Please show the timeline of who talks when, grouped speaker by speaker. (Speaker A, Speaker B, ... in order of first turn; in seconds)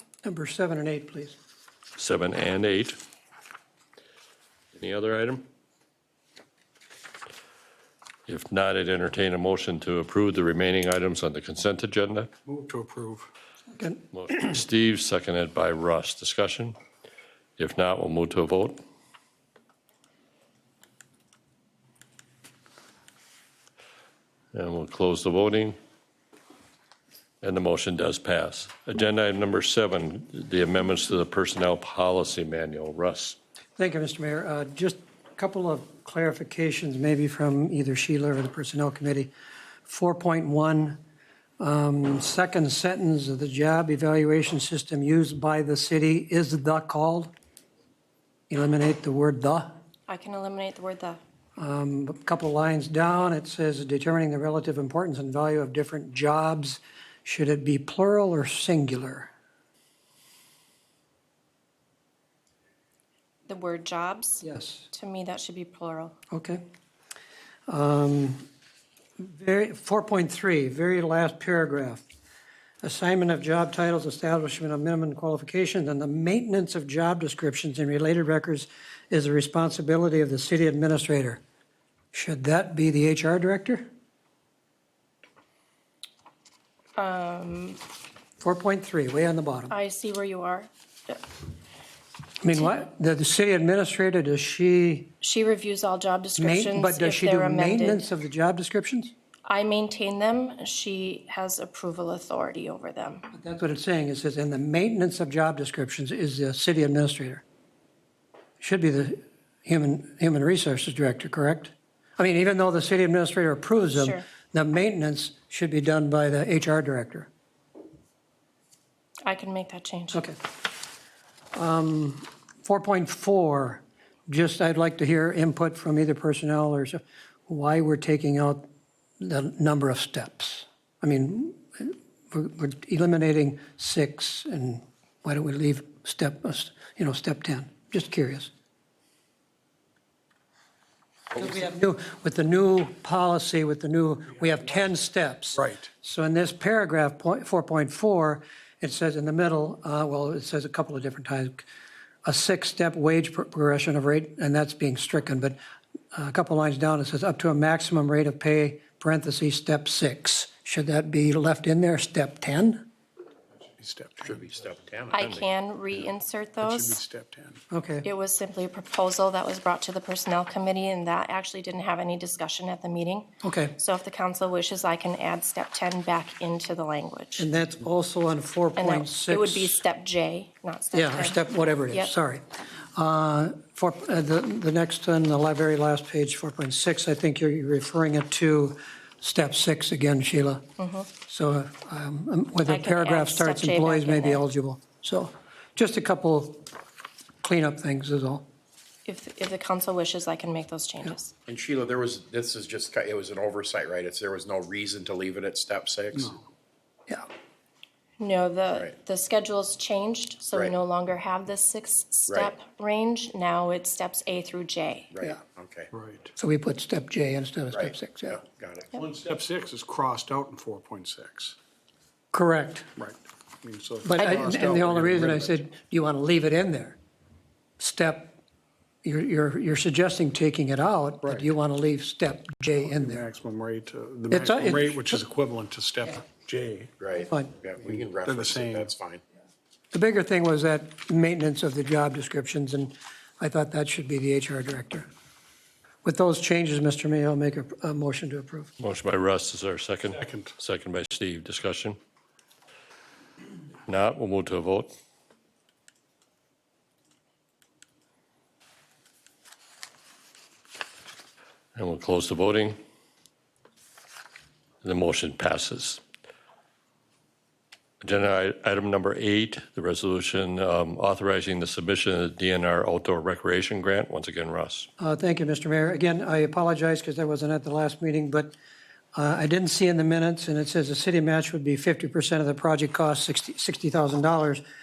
Speaker A: 0.2-1.4, 13.7-14.0, 33.8-39.3, 39.9-41.0, 41.6-47.3, 48.5-49.7, 51.6-59.3, 64.4-64.9, 66.3-66.6, 67.7-68.4, 69.2-72.0, 72.8-81.4, 82.1-83.9, 88.4-89.8, 92.4-95.1, 96.4-99.1, 103.3-107.4, 108.6-117.3, 121.5-128.7, 129.2-138.5, 141.3-151.7, 152.2-155.6, 156.1-162.9, 167.7-168.1, 173.4-173.8, 177.4-179.8, 180.9-182.4, 182.9-196.7, 197.4-198.4, 216.4-218.4, 222.3-222.9, 224.1-227.0, 227.8-228.4, 229.0-233.2, 234.3-235.2, 237.2-237.6, 239.9-245.1, 246.0-248.7, 275.0-278.6, 279.1-284.6
Speaker B: 2.0-3.0, 4.8-5.5, 8.3-12.3, 14.1-16.8, 17.6-18.8, 24.5-25.8, 27.4-33.4, 165.2-165.5, 248.8-252.0, 253.9-254.9, 261.8-262.8, 264.8-266.0, 268.0-274.9
Speaker C: 12.5-13.3, 145.6-145.9, 163.8-164.5, 165.9-167.6, 206.2-206.4, 215.9-216.3, 218.9-221.6, 223.0-225.6, 231.2-231.5, 232.8-236.9, 237.9-238.9, 250.1-250.6
Speaker D: 50.1-51.2, 63.5-66.2, 87.0-87.8, 89.7-91.2, 95.2-98.1, 99.5-103.3, 114.0-114.3, 119.2-120.2, 165.1-167.0, 168.0-177.5, 178.8-182.1, 190.8-191.1, 192.7-194.4, 199.1-201.3, 208.2-215.1
Speaker E: 164.2-165.3, 201.5-206.4, 208.7-209.0, 210.5-210.8, 212.3-212.6, 215.1-215.9, 217.7-218.9, 237.0-239.2